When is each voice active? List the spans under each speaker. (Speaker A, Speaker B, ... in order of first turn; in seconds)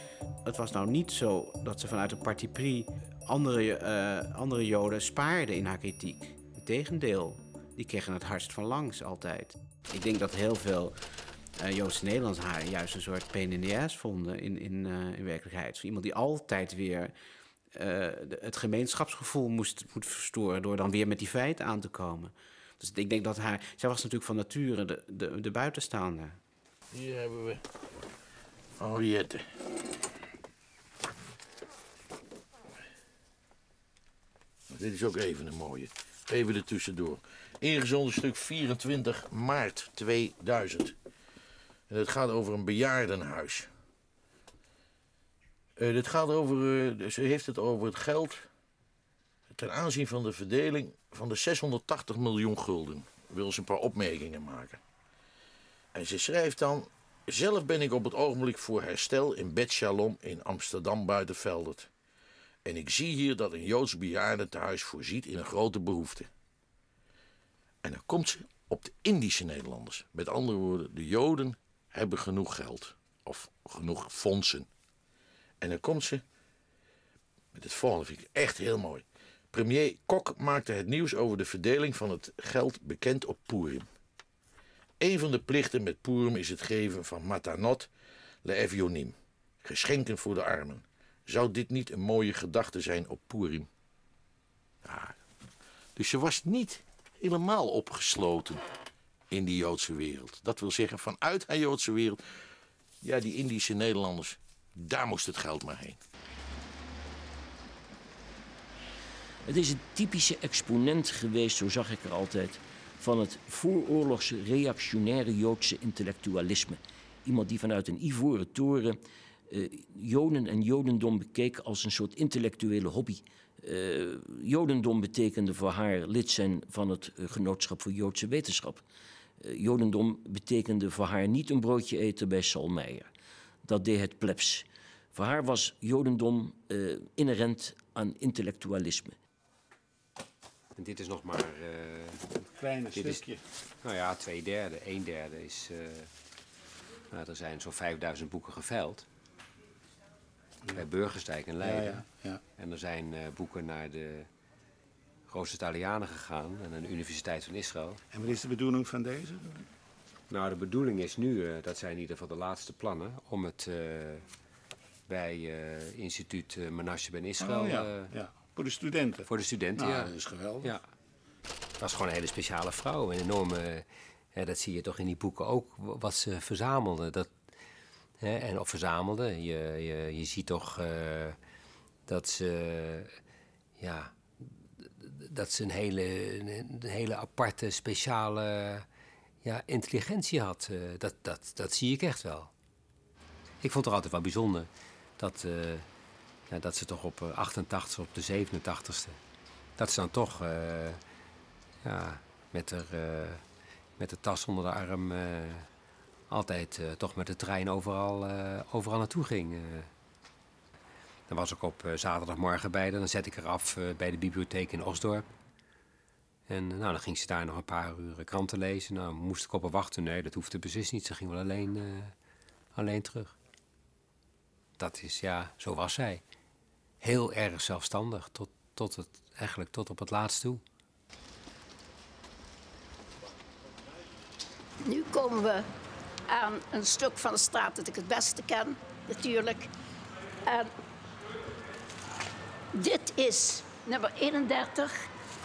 Speaker A: 0.5-11.0, 11.6-17.1, 17.7-26.4
Speaker B: 26.9-27.6, 28.8-29.5, 34.7-41.0, 41.9-43.7, 45.8-48.5, 49.5-54.8, 56.0-61.9, 62.6-66.3, 67.8-74.7, 75.6-76.2, 77.5-83.9, 85.0-87.9, 88.4-93.7, 94.8-95.2, 96.0-98.6, 99.3-102.4, 103.0-106.0
Speaker C: 109.5-119.0, 119.5-128.8, 129.4-133.1, 133.7-139.2
Speaker D: 140.8-143.3, 143.8-146.1, 147.1-149.1, 150.7-154.3, 155.3-158.0, 160.3-164.2, 165.1-168.1, 169.3-170.8, 171.8-177.3, 178.2-181.4, 182.1-183.2, 183.8-188.9, 189.4-192.5, 193.6-195.9, 196.5-199.2, 199.8-201.0, 201.8-203.4, 204.0-205.7, 206.3-209.9, 211.3-215.3, 216.5-222.1, 222.8-223.3, 224.8-226.2, 227.0-230.6
Speaker E: 142.6-143.4, 151.6-152.4, 158.1-159.4, 167.4-169.2, 169.8-170.7
Speaker F: 234.8-235.7, 236.3-239.7, 240.5-240.7, 242.7-245.1